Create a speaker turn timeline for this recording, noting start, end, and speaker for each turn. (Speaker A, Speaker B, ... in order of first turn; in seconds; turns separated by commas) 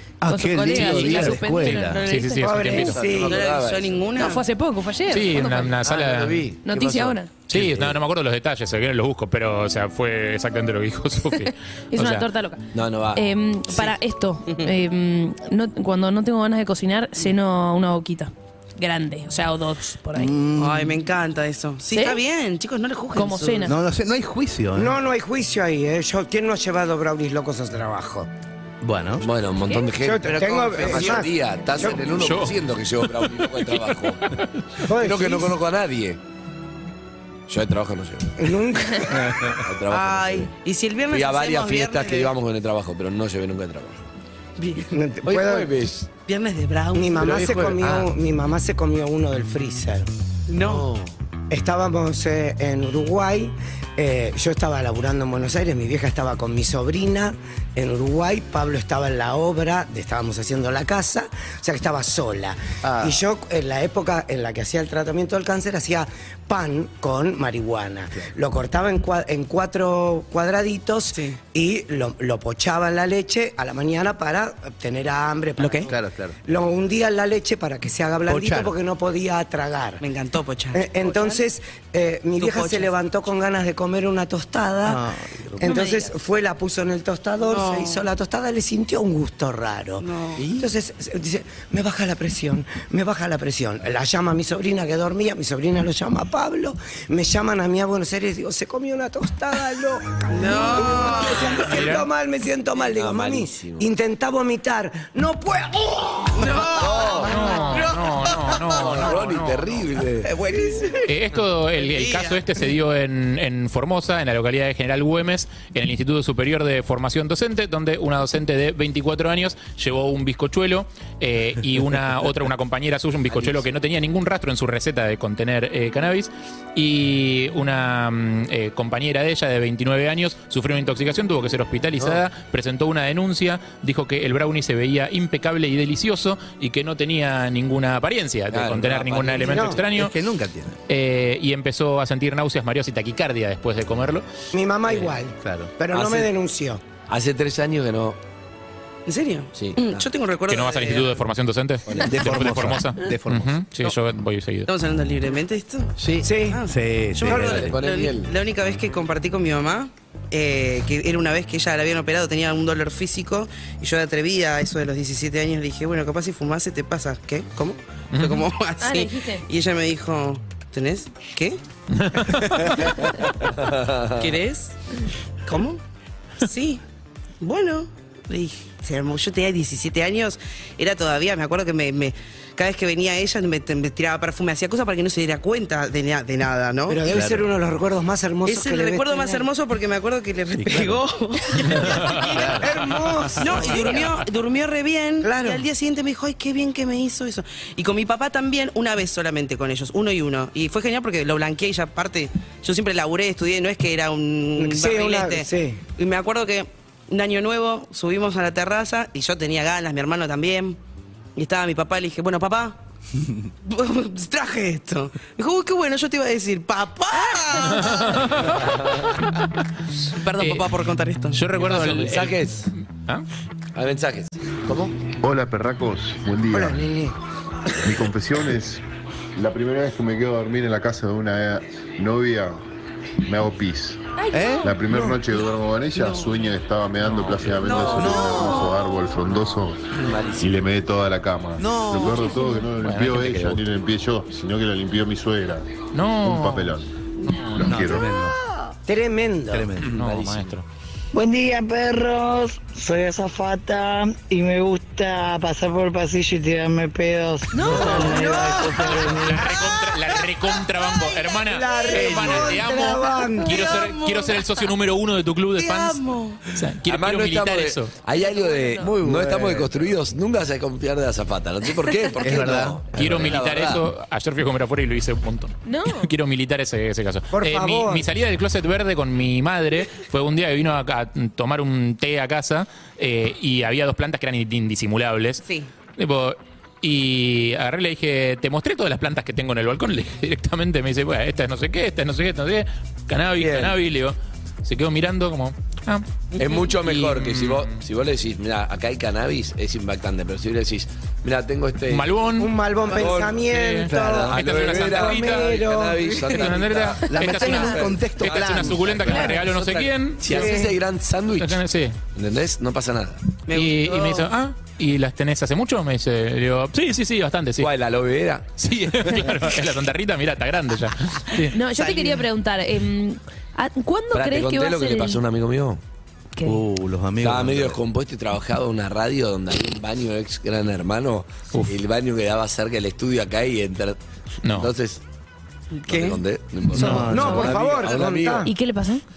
Speaker A: 0.2-2.0, Speaker B: 0.3-2.6, Speaker C: 0.8-3.0, Speaker D: 2.0-4.4, Speaker E: 2.4-3.4, Speaker F: 2.7-4.1, Speaker B: 4.2-5.8, Speaker C: 5.1-6.4, Speaker F: 5.8-7.9, Speaker B: 6.6-7.3, Speaker C: 7.5-12.3, Speaker B: 11.9-20.3, Speaker F: 12.7-13.2, Speaker A: 20.1-21.0, Speaker D: 20.6-23.6, Speaker B: 21.9-22.2, Speaker B: 23.1-23.8, Speaker A: 23.6-25.0, Speaker E: 24.8-28.3, Speaker A: 28.8-29.3, Speaker F: 29.2-34.4, Speaker E: 29.9-32.0, Speaker C: 32.2-32.5, Speaker E: 34.9-35.5, Speaker F: 34.9-36.2, Speaker F: 37.5-38.5, Speaker E: 38.4-39.5, Speaker F: 39.6-40.5, Speaker D: 39.9-42.3, Speaker F: 41.1-44.1, Speaker D: 44.6-44.9, Speaker E: 44.9-45.7, Speaker F: 45.2-46.1, Speaker D: 46.2-47.4, Speaker E: 46.9-50.1, Speaker F: 47.2-48.1, Speaker D: 50.5-50.9, Speaker F: 50.6-51.1, Speaker E: 51.5-75.9, Speaker A: 62.8-63.2, Speaker D: 75.6-75.9, Speaker A: 75.8-76.3, Speaker E: 76.5-80.0, Speaker A: 78.3-78.8, Speaker D: 80.0-81.5, Speaker E: 80.7-85.0, Speaker D: 82.4-82.9, Speaker A: 84.8-85.8, Speaker B: 85.6-86.1, Speaker E: 85.6-107.2, Speaker D: 87.4-88.0, Speaker D: 90.0-90.4, Speaker A: 90.4-90.7, Speaker D: 100.3-101.7, Speaker C: 101.6-102.1, Speaker F: 102.8-103.9, Speaker D: 106.3-109.0, Speaker F: 106.8-107.6, Speaker C: 107.2-109.8, Speaker F: 108.7-110.3, Speaker D: 110.2-111.0, Speaker E: 110.4-111.0, Speaker C: 111.1-140.2, Speaker D: 111.8-112.4, Speaker F: 123.3-123.7, Speaker F: 138.5-139.8, Speaker E: 139.4-139.8, Speaker A: 139.9-140.8, Speaker C: 140.9-144.2, Speaker E: 144.5-146.8, Speaker A: 145.4-145.7, Speaker F: 145.9-146.3, Speaker F: 147.1-148.2, Speaker D: 149.1-151.2, Speaker F: 149.6-150.1, Speaker C: 150.5-154.7, Speaker F: 151.9-152.1, Speaker A: 152.0-153.7, Speaker D: 154.7-155.9, Speaker A: 156.0-157.8, Speaker E: 156.2-156.7, Speaker D: 156.5-171.6, Speaker E: 157.2-157.6, Speaker F: 157.3-158.3, Speaker C: 168.1-168.5, Speaker B: 168.8-169.5, Speaker C: 171.9-172.8, Speaker F: 173.5-174.3, Speaker D: 174.2-174.7, Speaker D: 175.5-175.8, Speaker D: 176.4-176.8, Speaker D: 177.4-187.1, Speaker E: 186.9-189.5, Speaker A: 187.0-187.5, Speaker D: 188.4-192.5, Speaker A: 190.5-191.1, Speaker A: 191.6-192.8, Speaker E: 191.9-194.1, Speaker D: 193.4-210.8, Speaker E: 195.2-195.6, Speaker E: 204.6-205.8, Speaker D: 211.4-212.8, Speaker D: 213.6-218.1, Speaker B: 217.3-218.0, Speaker C: 217.7-218.6, Speaker F: 218.6-219.0, Speaker D: 220.1-221.4, Speaker C: 220.4-220.7, Speaker C: 221.3-223.2, Speaker F: 221.6-222.7, Speaker F: 223.8-224.9, Speaker G: 225.2-226.8, Speaker E: 226.5-227.2, Speaker G: 227.8-228.8, Speaker G: 229.4-232.6, Speaker G: 233.3-234.0, Speaker B: 234.2-234.7, Speaker A: 234.3-235.2, Speaker G: 234.6-245.7, Speaker C: 237.0-237.6, Speaker F: 237.6-238.2, Speaker A: 237.9-238.8, Speaker F: 239.9-240.7, Speaker A: 241.6-242.4, Speaker B: 242.2-242.6, Speaker C: 242.8-243.6, Speaker C: 245.9-246.8, Speaker G: 246.2-246.9, Speaker C: 247.3-247.7, Speaker G: 247.5-248.1, Speaker A: 247.6-248.4, Speaker E: 248.9-249.7, Speaker A: 249.5-250.1, Speaker C: 249.8-250.7, Speaker F: 250.0-250.5, Speaker H: 251.1-259.5, Speaker B: 257.6-258.1, Speaker E: 257.7-259.3, Speaker C: 259.2-267.9, Speaker E: 261.4-263.6, Speaker D: 261.8-262.6, Speaker D: 263.4-264.6, Speaker D: 265.6-266.4, Speaker F: 266.9-273.9, Speaker B: 268.1-268.9, Speaker A: 269.0-269.8, Speaker A: 272.2-273.0, Speaker C: 272.9-285.4, Speaker B: 275.6-276.1, Speaker E: 277.3-278.1, Speaker D: 285.4-285.7, Speaker C: 286.0-297.8, Speaker F: 293.4-293.8, Speaker D: 296.4-296.6, Speaker F: 296.4-302.1, Speaker C: 301.9-302.5, Speaker E: 302.4-306.5, Speaker F: 302.9-311.6, Speaker C: 303.4-305.5, Speaker C: 306.4-310.5, Speaker A: 307.1-309.4, Speaker E: 310.3-310.7, Speaker C: 311.4-312.0, Speaker F: 312.1-313.3, Speaker D: 313.5-314.3, Speaker C: 313.5-317.7, Speaker F: 317.6-318.5, Speaker C: 318.6-321.6, Speaker B: 321.5-325.2, Speaker A: 321.8-322.1, Speaker F: 324.1-325.8, Speaker B: 326.4-326.6, Speaker A: 326.4-327.8, Speaker F: 327.2-334.0, Speaker C: 334.4-334.7, Speaker F: 334.5-335.0, Speaker D: 335.7-336.2, Speaker F: 335.9-338.5, Speaker A: 336.7-337.7, Speaker E: 336.8-338.5, Speaker B: 338.4-339.0